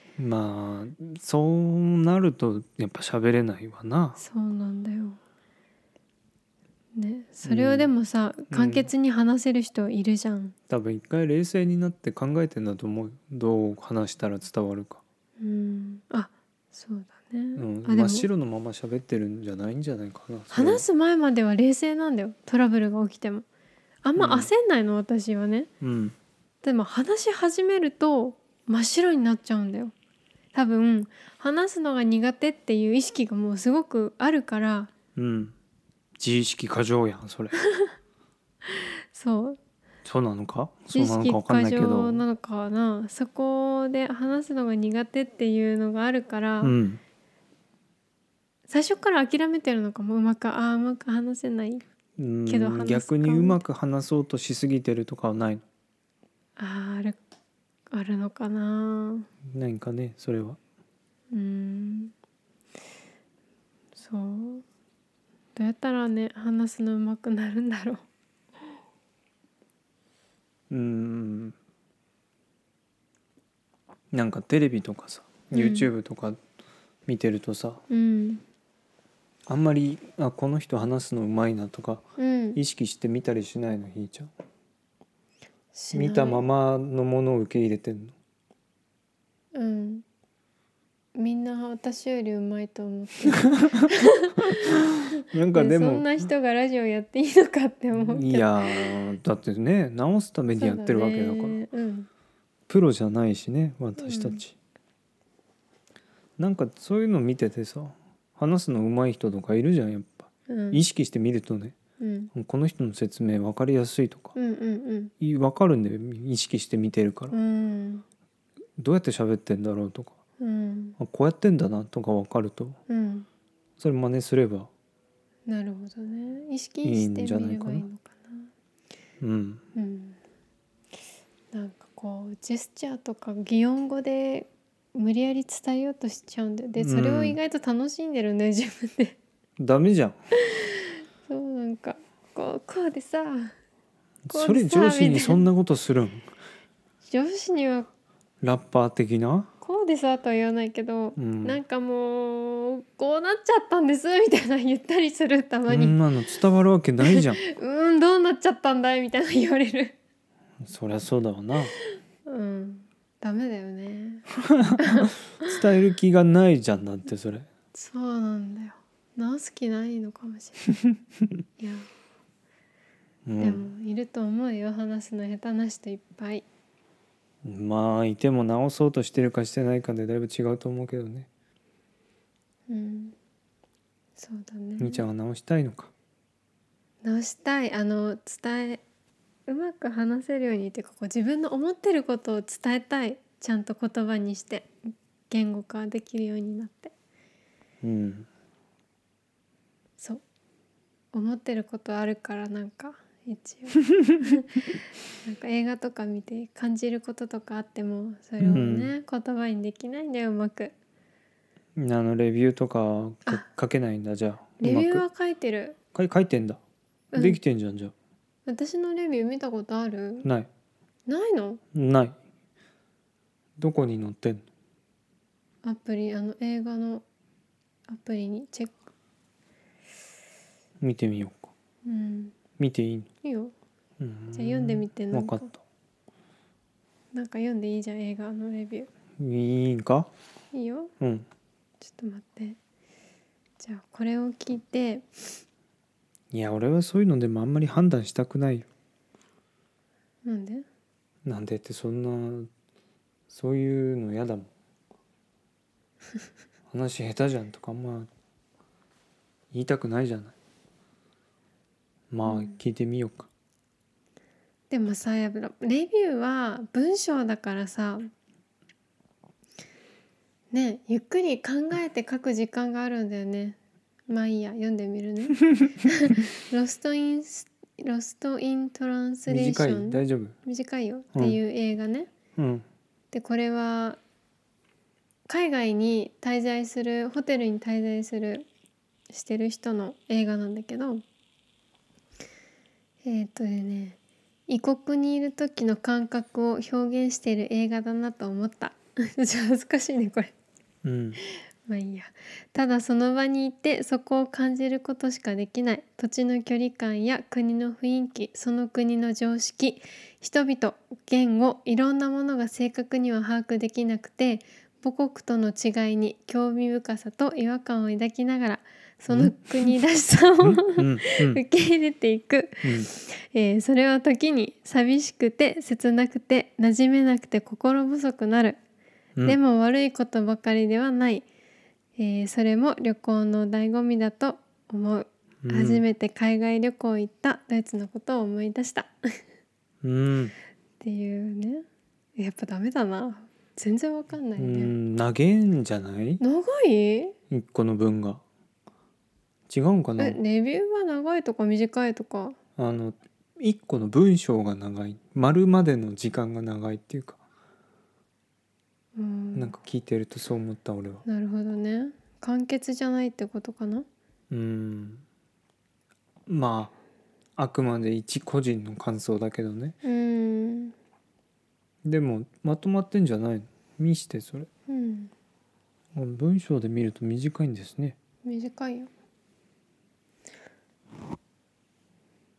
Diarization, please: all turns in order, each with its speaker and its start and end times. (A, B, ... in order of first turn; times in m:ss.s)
0:00.2-0:04.2 A
0:04.2-0:05.2 B
0:07.0-0:10.5 B
0:07.4-0:07.9 A
0:08.5-0:08.9 A
0:10.7-0:15.0 A
0:15.4-0:18.3 B
0:17.6-0:20.8 A
0:20.5-0:23.4 B
0:24.0-0:25.7 B
0:24.2-0:24.5 A
0:25.8-0:26.1 A
0:26.6-0:29.9 B
0:30.5-0:34.9 B
0:35.2-0:35.5 A
0:36.2-0:37.5 A
0:38.7-0:39.6 B
0:40.0-0:42.2 A
0:40.9-0:46.8 B
0:46.6-0:47.0 A
0:48.7-0:51.8 B
0:52.2-0:55.6 A
0:52.5-0:53.6 B
0:56.6-0:57.2 B
0:57.9-0:59.3 B
0:59.5-1:00.6 A
1:01.3-1:02.1 B
1:04.0-1:04.6 B
1:05.6-1:08.0 B
1:10.7-1:11.5 A
1:14.1-1:16.4 A
1:15.5-1:15.9 B
1:17.1-1:17.8 A
1:17.9-1:18.4 B
1:19.5-1:22.0 A
1:22.2-1:22.6 B
1:22.5-1:24.3 A
1:25.7-1:26.4 B
1:25.9-1:28.1 A
1:29.5-1:30.0 B
1:31.1-1:34.8 B
1:33.5-1:33.9 A
1:34.5-1:36.1 A
1:35.5-1:39.1 B
1:37.9-1:41.6 A
1:40.6-1:42.1 B
1:42.7-1:44.5 A
1:44.0-1:44.4 B
1:46.4-1:51.7 A
1:50.5-1:50.8 B
1:52.0-1:52.3 B
1:52.3-1:54.3 A
1:54.3-1:55.1 B
1:55.2-1:57.3 A
1:57.3-1:58.0 B
1:58.8-2:00.1 A
2:00.4-2:01.0 B
2:01.0-2:02.8 A
2:02.9-2:03.3 B
2:03.8-2:04.7 A
2:05.5-2:08.5 B
2:06.8-2:07.8 A
2:09.2-2:09.6 A
2:09.7-2:10.2 B
2:11.5-2:19.2 B
2:16.8-2:17.4 A
2:19.6-2:20.2 A
2:20.4-2:23.5 B
2:24.2-2:26.3 A
2:24.3-2:25.4 B
2:27.0-2:27.9 B
2:28.4-2:29.5 A
2:29.6-2:36.0 B
2:31.2-2:31.6 A
2:35.7-2:37.4 A
2:37.0-2:39.9 B
2:40.6-2:41.7 A
2:42.2-2:44.2 B
2:44.4-2:47.5 A
2:44.8-2:45.5 B
2:47.7-2:50.7 B
2:51.6-2:51.9 B
2:53.2-2:53.6 A
2:53.4-2:56.4 B
2:57.4-3:01.3 A
3:02.7-3:03.1 B
3:04.2-3:05.0 B
3:04.8-3:05.9 A
3:07.0-3:08.8 B
3:09.5-3:14.7 B
3:15.3-3:16.9 B
3:17.8-3:18.3 A
3:21.1-3:24.6 B
3:25.2-3:30.7 B
3:28.4-3:28.9 A
3:31.8-3:35.0 A
3:34.6-3:35.8 B
3:35.9-3:36.6 A
3:37.1-3:37.4 B
3:37.1-3:37.9 A
3:38.5-3:40.3 B
3:40.2-3:40.5 A
3:41.1-3:41.6 B
3:41.7-3:42.2 A
3:43.6-3:44.4 A
3:45.6-3:47.0 B
3:47.9-3:48.7 B
3:50.8-3:51.5 A
3:51.8-3:52.4 B
3:52.6-3:53.1 A
3:53.2-3:53.5 B
3:54.0-3:55.6 A
3:54.3-3:55.5 B
3:57.1-3:58.9 B
3:59.2-4:00.1 A
4:00.5-4:00.9 B
4:01.0-4:01.3 A
4:01.8-4:02.6 B
4:03.6-4:05.1 B
4:06.3-4:08.7 A
4:10.2-4:10.6 B
4:11.2-4:12.5 A
4:13.3-4:14.5 A
4:16.7-4:18.1 A
4:19.5-4:20.3 A
4:22.1-4:23.3 A
4:22.2-4:22.6 B
4:24.7-4:28.1 B
4:30.5-4:33.6 B
4:34.1-4:42.1 B
4:39.3-4:40.4 A
4:42.4-4:42.6 A
4:43.1-4:44.0 B
4:45.3-4:48.5 B
4:49.1-4:51.0 B
4:53.0-5:00.3 B
5:00.8-5:01.2 A
5:01.7-5:28.6 B
5:19.1-5:19.4 A
5:20.4-5:21.4 A
5:22.6-5:22.9 A
5:29.2-5:31.2 B
5:32.0-5:38.9 B
5:35.4-5:35.8 A
5:39.8-5:40.3 A
5:40.8-5:41.6 B
5:42.2-5:44.7 B
5:44.4-5:46.2 A
5:46.2-5:47.2 B
5:47.3-5:48.2 A
5:49.5-5:50.2 A
5:50.0-5:52.4 B
5:52.6-5:57.2 A
5:59.0-5:59.5 B
5:59.3-6:01.0 A
6:01.0-6:03.8 B
6:04.3-6:05.0 A
6:06.3-6:06.7 A
6:07.4-6:09.8 A
6:09.8-6:10.7 B
6:11.8-6:14.5 A
6:14.7-6:15.1 B
6:15.9-6:18.0 A
6:18.2-6:18.9 B